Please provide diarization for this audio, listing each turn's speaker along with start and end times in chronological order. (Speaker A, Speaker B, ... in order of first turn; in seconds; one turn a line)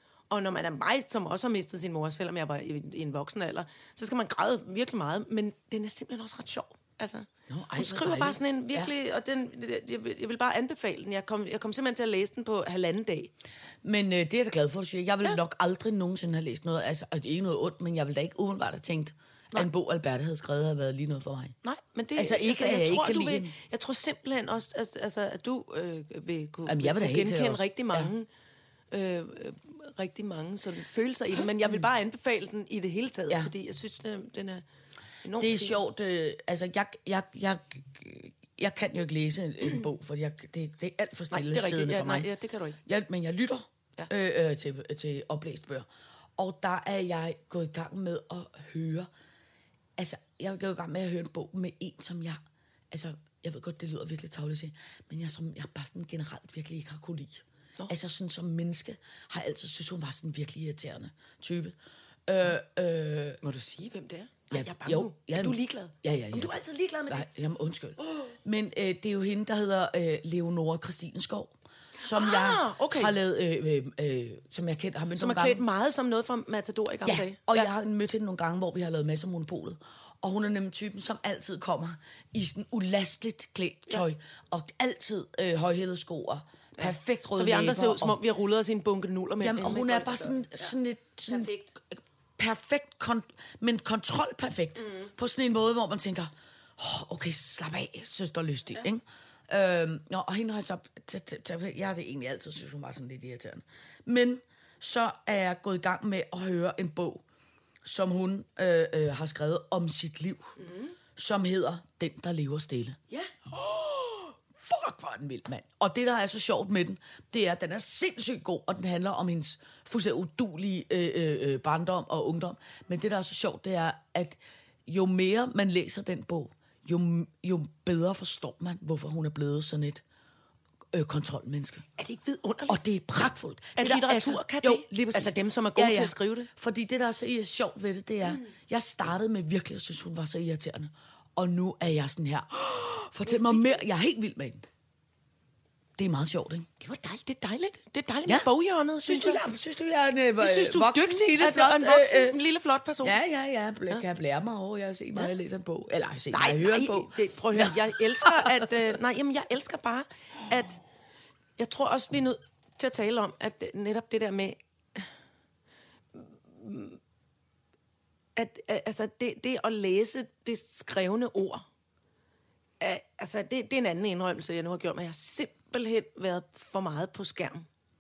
Speaker A: 0.3-13.3
Speaker B: 7.5-8.9
Speaker B: 13.8-21.6
Speaker A: 21.6-28.3
Speaker B: 22.2-23.5
Speaker B: 26.7-28.1
Speaker A: 28.9-34.6
Speaker A: 35.2-35.8
Speaker B: 35.4-42.3
Speaker A: 41.3-42.8
Speaker B: 42.9-49.1
Speaker B: 50.0-52.4
Speaker B: 52.9-61.8
Speaker B: 62.3-63.4
Speaker A: 63.4-67.3
Speaker B: 64.5-75.6
Speaker A: 72.1-73.2
Speaker A: 75.2-77.7
Speaker B: 77.0-88.2
Speaker A: 86.8-90.7
Speaker B: 89.4-107.2
Speaker A: 91.3-91.7
Speaker B: 107.8-110.5
Speaker A: 110.6-110.9
Speaker B: 111.2-130.0
Speaker B: 130.9-131.8
Speaker A: 132.0-132.8
Speaker B: 132.7-144.6
Speaker A: 133.8-136.5
Speaker A: 143.3-143.6
Speaker B: 146.0-146.7
Speaker A: 146.8-149.5
Speaker B: 149.0-152.4
Speaker A: 150.4-153.2
Speaker B: 153.0-158.7
Speaker A: 156.3-160.8
Speaker A: 161.6-165.1
Speaker A: 166.2-167.0
Speaker A: 168.4-171.7
Speaker A: 172.8-177.7